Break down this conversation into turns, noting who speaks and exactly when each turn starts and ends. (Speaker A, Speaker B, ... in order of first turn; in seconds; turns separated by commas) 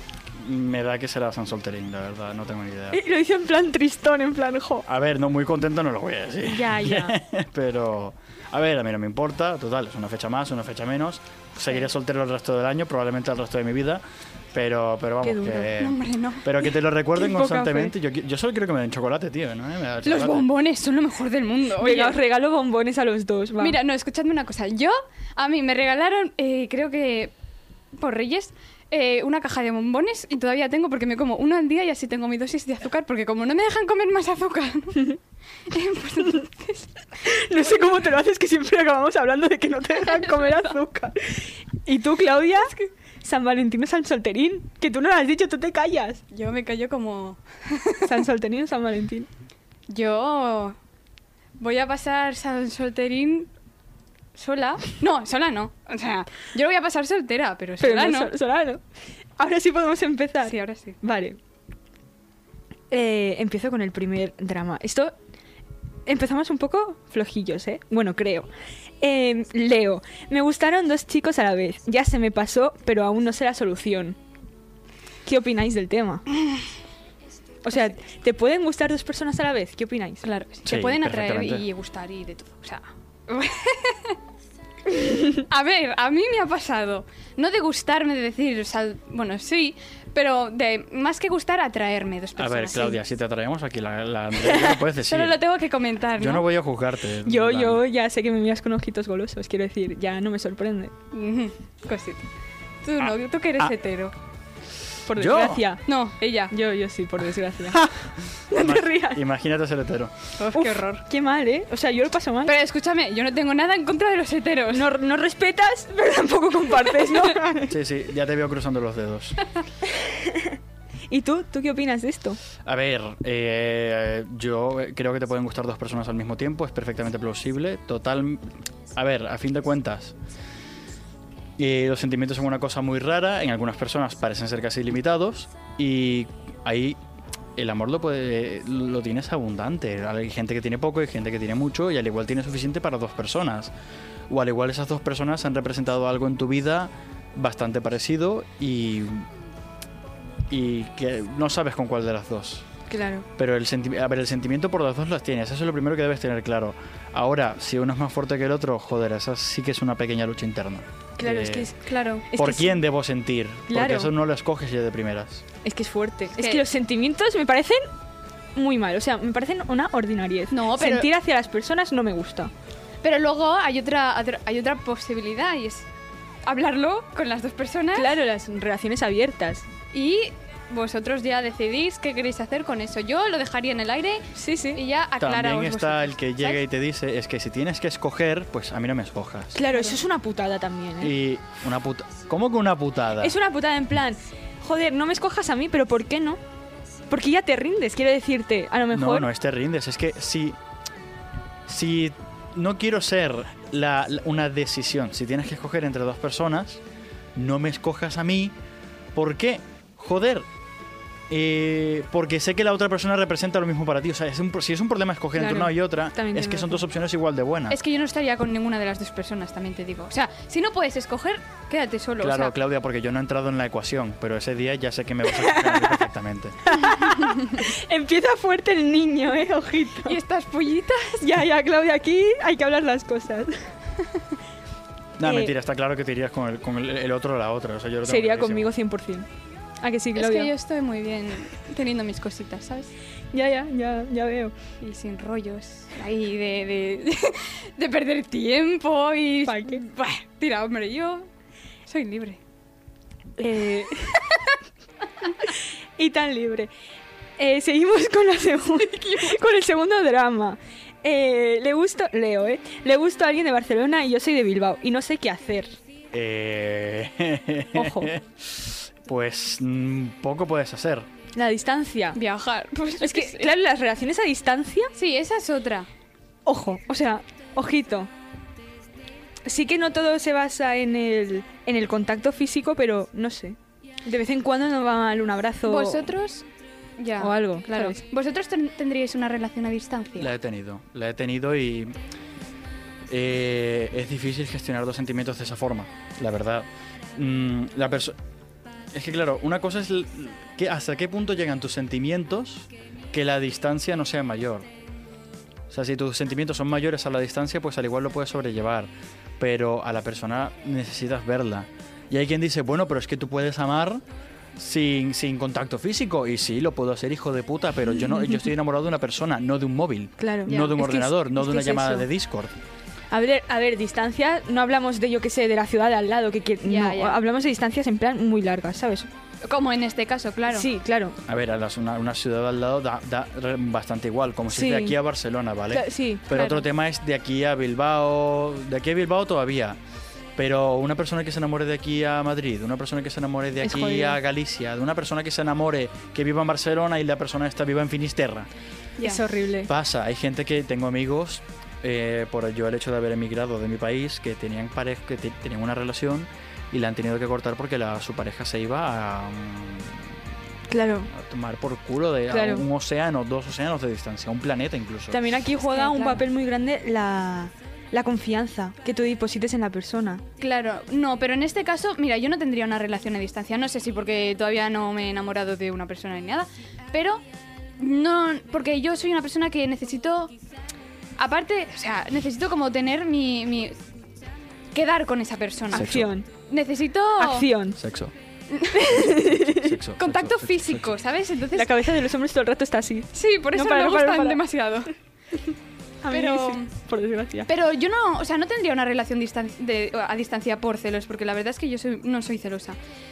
Speaker A: 0.4-3.0, Speaker B: 2.9-4.9, Speaker A: 4.9-20.5, Speaker B: 6.5-7.2, Speaker B: 15.2-15.7, Speaker C: 15.8-16.6, Speaker B: 17.3-17.9, Speaker C: 20.0-22.2, Speaker B: 21.8-23.8, Speaker C: 23.6-27.3, Speaker C: 28.0-35.1, Speaker C: 35.7-36.9, Speaker B: 37.2-46.2, Speaker C: 40.0-40.7, Speaker C: 42.6-42.9, Speaker C: 46.3-48.2, Speaker B: 48.0-49.3, Speaker C: 49.9-50.8, Speaker C: 51.6-53.5, Speaker C: 54.4-58.3, Speaker B: 57.8-58.8, Speaker B: 59.4-61.4, Speaker C: 60.4-61.0, Speaker B: 62.9-65.1, Speaker B: 66.1-68.5, Speaker B: 69.0-74.2, Speaker B: 75.2-76.2, Speaker B: 77.6-80.2, Speaker C: 80.2-84.2, Speaker A: 80.7-81.7, Speaker B: 85.0-85.3, Speaker C: 85.4-93.0, Speaker A: 92.4-95.4, Speaker B: 94.4-94.8, Speaker C: 95.0-96.5, Speaker A: 96.2-97.8, Speaker B: 97.2-100.9, Speaker C: 101.1-102.2, Speaker C: 102.8-104.2, Speaker A: 103.0-103.7, Speaker B: 105.0-105.9, Speaker A: 105.1-105.6, Speaker C: 105.9-106.5, Speaker B: 106.5-109.2, Speaker A: 108.5-110.1, Speaker C: 110.4-111.0, Speaker B: 110.5-112.5, Speaker C: 112.4-114.9, Speaker B: 114.7-117.8, Speaker C: 117.0-117.3, Speaker A: 117.7-119.4, Speaker B: 120.0-120.6, Speaker B: 121.1-122.4, Speaker A: 122.6-130.2, Speaker A: 131.6-137.0, Speaker A: 137.6-143.7, Speaker A: 144.3-149.3, Speaker A: 150.5-152.7, Speaker B: 152.9-153.3, Speaker A: 153.4-161.7, Speaker B: 161.2-162.8, Speaker C: 161.8-162.3, Speaker A: 162.3-165.4, Speaker B: 163.7-164.1, Speaker B: 165.6-167.9, Speaker C: 166.3-166.6, Speaker B: 168.6-172.5, Speaker C: 170.5-171.1, Speaker C: 173.0-175.9, Speaker C: 176.4-178.1, Speaker B: 177.9-179.7, Speaker C: 179.9-186.6, Speaker B: 184.3-184.8, Speaker A: 185.2-189.6, Speaker B: 189.5-191.2, Speaker A: 191.0-193.4, Speaker B: 193.2-196.4, Speaker B: 197.1-199.3, Speaker A: 198.9-200.6, Speaker A: 201.7-206.8, Speaker A: 207.4-208.6, Speaker A: 209.2-210.5, Speaker A: 211.3-217.8, Speaker B: 215.4-216.9, Speaker C: 217.7-222.5, Speaker A: 222.2-226.6, Speaker B: 225.3-226.1, Speaker B: 226.7-230.2, Speaker C: 230.0-231.3, Speaker B: 231.2-233.6, Speaker A: 235.2-238.7, Speaker B: 235.2-235.5, Speaker B: 238.1-239.3, Speaker B: 239.8-240.5, Speaker C: 240.2-242.9, Speaker B: 243.3-244.5, Speaker C: 244.8-251.3, Speaker B: 249.4-249.8, Speaker C: 251.9-252.4, Speaker B: 253.4-254.2, Speaker B: 256.0-256.7, Speaker B: 257.4-265.8, Speaker C: 258.8-259.4, Speaker A: 266.1-271.1, Speaker B: 267.7-268.1, Speaker B: 271.4-272.2, Speaker C: 272.1-273.5, Speaker B: 273.0-274.9, Speaker C: 275.0-275.9, Speaker B: 276.5-278.1, Speaker B: 279.4-286.1, Speaker C: 285.7-286.4, Speaker C: 287.0-290.3, Speaker B: 287.2-288.0, Speaker A: 290.2-292.0, Speaker A: 293.1-298.2, Speaker A: 298.9-304.7, Speaker A: 305.7-314.0, Speaker A: 314.6-322.6, Speaker B: 318.1-318.4, Speaker B: 320.2-322.1, Speaker C: 320.5-320.8, Speaker B: 323.1-329.1, Speaker C: 326.6-327.2, Speaker C: 329.4-330.7, Speaker B: 330.5-331.2, Speaker A: 331.3-339.8, Speaker B: 334.5-335.0, Speaker B: 335.7-336.3, Speaker C: 336.3-336.7, Speaker A: 340.4-348.5, Speaker B: 343.6-344.2, Speaker C: 349.0-349.2, Speaker B: 349.0-349.7, Speaker A: 349.7-360.1, Speaker B: 360.7-361.1, Speaker A: 361.1-365.2, Speaker B: 362.3-362.7, Speaker B: 365.1-370.2, Speaker C: 365.7-366.2, Speaker C: 370.4-377.2, Speaker C: 377.8-380.3, Speaker C: 381.2-383.8, Speaker C: 384.7-385.9, Speaker A: 385.7-386.1, Speaker B: 385.7-386.3, Speaker C: 386.5-387.5, Speaker B: 387.2-387.8, Speaker A: 387.8-388.1, Speaker C: 388.5-389.0, Speaker B: 388.8-389.8, Speaker A: 389.0-390.9, Speaker C: 390.0-391.7, Speaker B: 391.5-394.4, Speaker C: 393.1-394.9, Speaker B: 396.0-397.5, Speaker C: 396.1-396.7, Speaker C: 397.5-402.8